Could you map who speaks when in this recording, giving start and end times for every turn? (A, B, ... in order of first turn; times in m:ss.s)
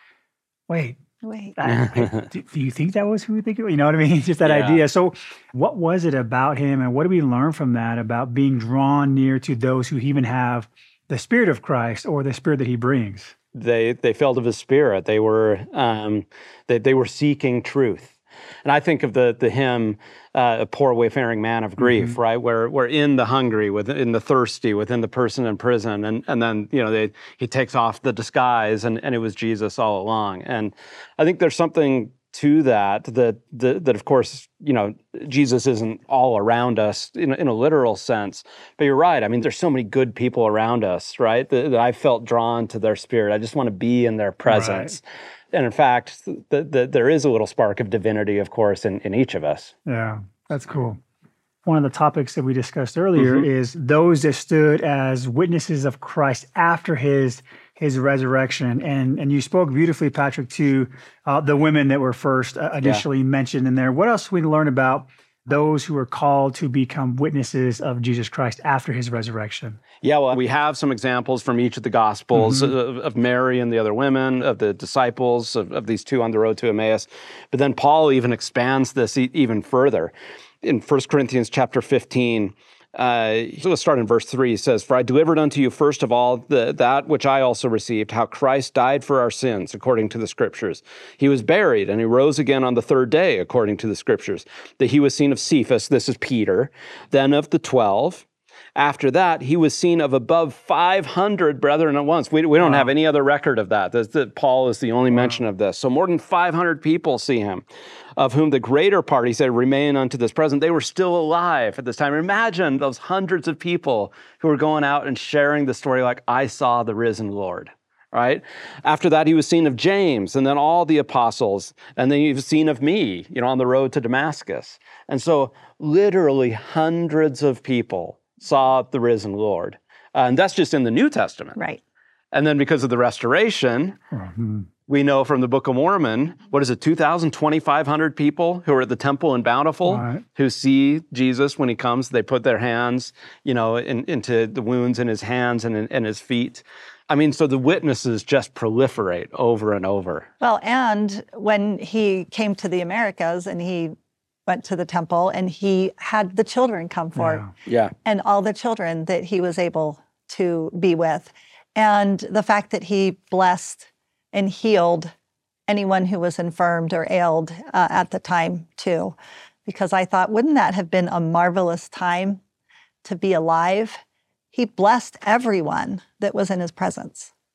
0:00.7-0:01.0 A
0:01.2-0:01.6 B
0:01.6-0:13.3 A
0:01.8-0:02.2 C
0:04.4-0:04.8 C
0:13.5-0:45.0 C
0:21.8-0:22.2 A
0:44.5-0:45.0 A
0:45.5-0:49.7 C
0:49.8-0:51.0 A
0:51.6-1:09.8 A
0:53.2-0:53.5 C
1:10.0-1:38.2 C
1:12.3-1:12.7 A
1:38.8-1:47.6 C
1:42.6-1:42.9 A
1:45.1-1:45.4 A
1:48.2-2:11.6 C
2:12.3-2:14.0 C
2:14.1-2:14.7 A
2:14.9-2:30.3 C
2:19.9-2:20.2 A
2:30.4-2:33.9 B
2:34.5-2:37.4 B
2:37.2-2:37.5 A
2:37.6-2:37.9 C
2:38.0-2:45.1 B
2:45.7-2:52.4 B
2:53.0-2:54.0 B
2:54.5-2:57.3 B